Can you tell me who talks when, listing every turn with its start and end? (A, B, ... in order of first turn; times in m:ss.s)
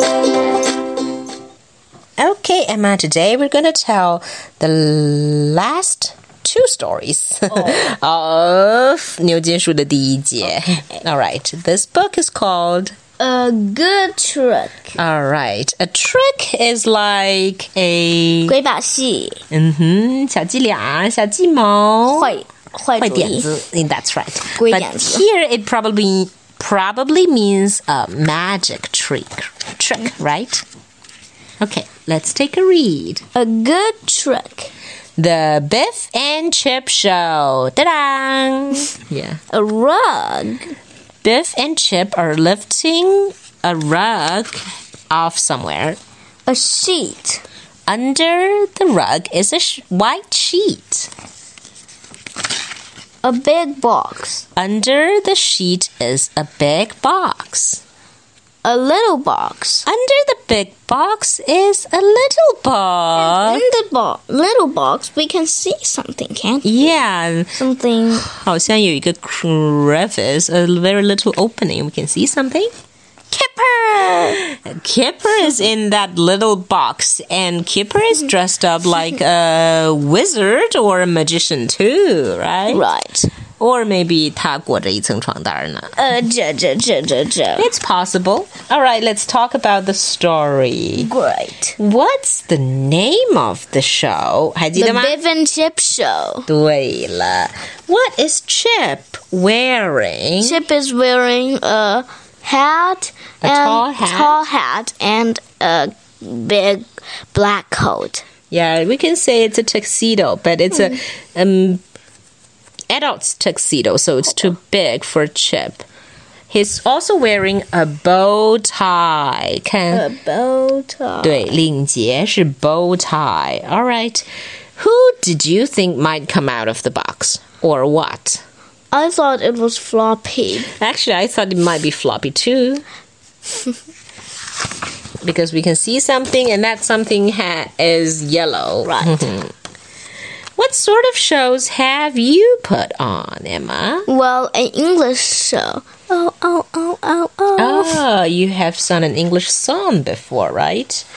0:02.2-0:12.9 A
0:13.2-0:15.0 B
0:15.0-0:18.5 A
0:18.5-0:19.4 B
0:19.5-0:22.4 A
0:22.1-0:23.5 B
0:23.0-0:30.6 A
0:24.6-0:25.2 B
0:31.6-0:33.2 A
0:33.3-0:34.7 B
0:35.2-0:39.4 A
0:39.5-0:40.7 B
0:41.2-0:46.0 A
0:46.4-0:47.4 B
0:47.9-0:51.1 A
0:53.2-0:54.4 B
0:54.6-0:57.8 A
0:58.6-0:59.8 B
0:59.8-1:03.6 A
1:03.2-1:06.9 B
1:06.6-1:07.6 A
1:07.5-1:08.3 B
1:08.2-1:12.7 A
1:13.3-1:14.4 B
1:14.3-1:22.8 A
1:22.7-1:23.3 B
1:23.6-1:25.9 A
1:26.0-1:27.7 B
1:27.6-1:31.1 A
1:31.0-1:31.8 B
1:31.8-1:35.2 A
1:34.8-1:36.4 B
1:36.5-1:40.6 A
1:40.4-1:48.2 B
1:43.4-1:44.4 A
1:48.5-1:51.8 A
1:52.9-1:55.8 A
1:56.5-2:00.0 A
1:59.9-2:01.5 B
2:01.2-2:08.4 A
2:08.9-2:10.7 B
2:10.7-2:12.8 A
2:15.2-2:19.5 A
2:18.8-2:19.3 B
2:20.6-2:24.1 A
2:24.1-2:28.0 B
2:27.6-2:31.0 A